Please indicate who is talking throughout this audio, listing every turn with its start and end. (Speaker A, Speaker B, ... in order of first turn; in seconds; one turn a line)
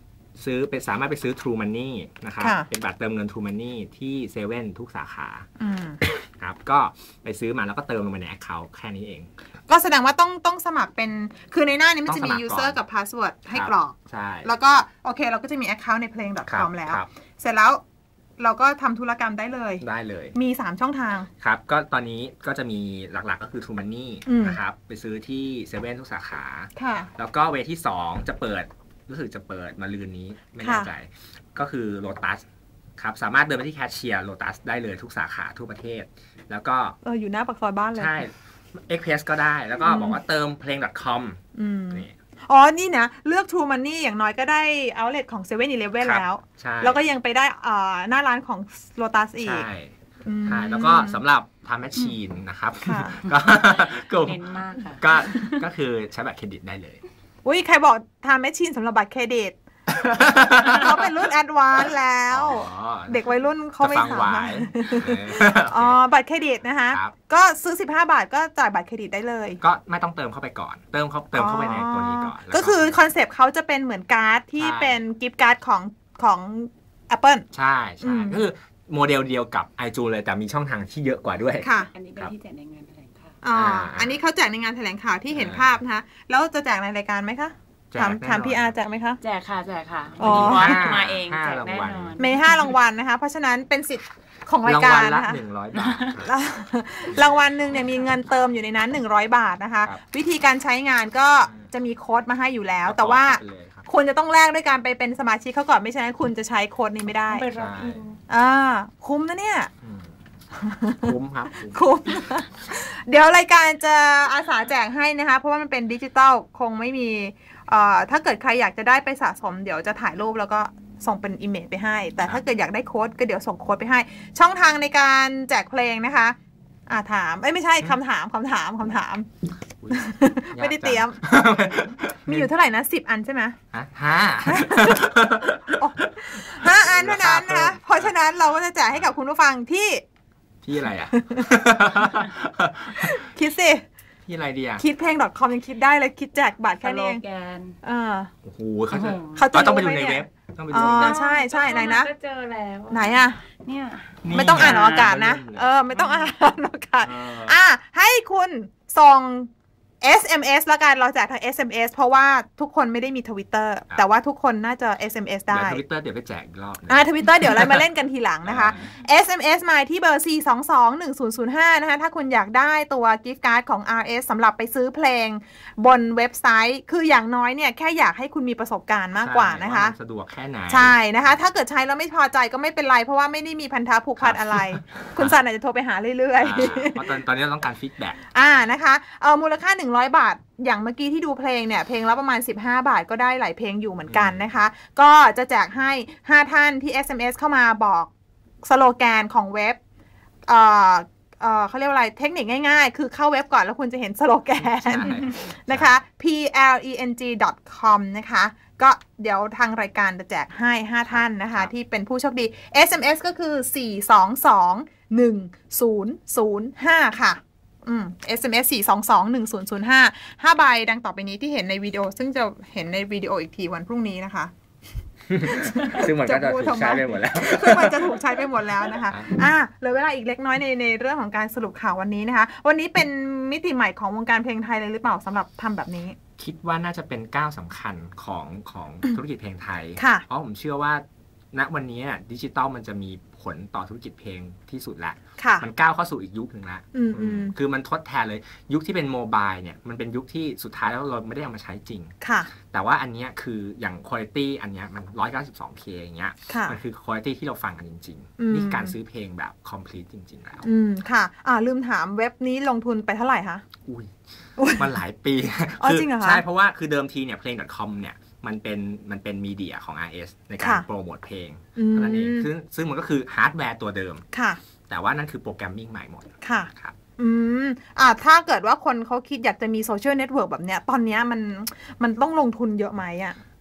Speaker A: 0.4-5.5
Speaker B: 2.4-2.7
Speaker B: 5.6-6.0
Speaker A: 6.0-9.3
Speaker B: 9.7-17.8
Speaker A: 12.1-12.8
Speaker A: 13.5-14.5
Speaker A: 16.5-17.1
Speaker B: 18.4-21.3
Speaker A: 19.8-20.4
Speaker A: 21.4-32.4
Speaker B: 24.2-24.6
Speaker B: 26.8-27.1
Speaker B: 30.6-30.9
Speaker A: 33.0-37.0
Speaker B: 37.0-38.2
Speaker A: 37.9-42.1
Speaker B: 39.8-40.2
Speaker B: 41.5-49.6
Speaker A: 46.0-47.0
Speaker A: 49.4-49.9
Speaker B: 50.2-51.2
Speaker A: 50.4-57.0
Speaker B: 52.8-53.2
Speaker C: 54.2-55.6
Speaker B: 57.4-59.6
Speaker A: 59.9-61.2
Speaker B: 60.7-69.6
Speaker A: 62.3-63.2
Speaker A: 63.8-66.0
Speaker A: 66.9-67.1
Speaker A: 69.6-73.0
Speaker B: 71.3-77.5
Speaker A: 74.6-75.0
Speaker A: 77.5-82.3
Speaker B: 78.0-78.4
Speaker B: 81.6-81.9
Speaker C: 81.9-83.4
Speaker B: 83.4-89.2
Speaker A: 83.5-84.2
Speaker A: 85.3-85.7
Speaker A: 87.9-88.7
Speaker C: 89.2-92.7
Speaker B: 90.2-90.9
Speaker A: 90.2-92.2
Speaker B: 92.2-95.4
Speaker A: 94.6-96.3
Speaker C: 95.8-96.2
Speaker B: 96.2-107.5
Speaker A: 97.1-97.4
Speaker A: 101.4-101.7
Speaker A: 102.8-103.9
Speaker C: 107.3-108.2
Speaker A: 107.5-108.0
Speaker B: 108.3-109.7
Speaker A: 109.8-110.1
Speaker B: 110.6-126.3
Speaker A: 111.0-112.3
Speaker B: 126.9-129.3
Speaker A: 129.8-132.5
Speaker B: 129.9-131.2
Speaker B: 132.2-133.6
Speaker A: 133.7-138.1
Speaker B: 134.4-135.1
Speaker B: 135.7-140.0
Speaker A: 140.6-143.2
Speaker B: 141.1-142.2
Speaker B: 142.9-143.8
Speaker A: 144.2-144.8
Speaker B: 144.8-147.2
Speaker C: 146.8-147.8
Speaker B: 147.8-148.3
Speaker A: 148.4-151.2
Speaker C: 148.9-149.5
Speaker B: 149.3-152.1
Speaker C: 150.8-155.1
Speaker B: 152.9-153.4
Speaker A: 154.2-155.8
Speaker B: 154.3-159.5
Speaker C: 155.9-156.3
Speaker A: 157.0-157.6
Speaker B: 160.0-165.8
Speaker A: 165.5-167.8
Speaker B: 166.9-179.9
Speaker A: 168.4-168.9
Speaker A: 179.2-181.0
Speaker B: 180.7-187.0
Speaker A: 184.2-185.3
Speaker A: 186.4-188.3
Speaker B: 188.3-198.1
Speaker A: 194.1-194.4
Speaker B: 198.6-199.8
Speaker B: 200.5-224.5
Speaker A: 204.6-205.9
Speaker A: 211.1-211.7
Speaker A: 225.3-229.4
Speaker B: 225.4-236.2
Speaker A: 236.4-252.1
Speaker B: 240.0-240.2
Speaker B: 245.4-245.7
Speaker B: 246.9-247.5
Speaker B: 252.2-252.5
Speaker A: 252.7-260.6
Speaker B: 256.5-256.8
Speaker B: 258.4-258.9
Speaker B: 260.6-263.6
Speaker A: 263.8-274.2
Speaker B: 265.8-266.4
Speaker B: 270.6-270.9
Speaker B: 271.8-272.5
Speaker B: 274.3-274.6
Speaker A: 274.9-276.9
Speaker B: 276.4-283.4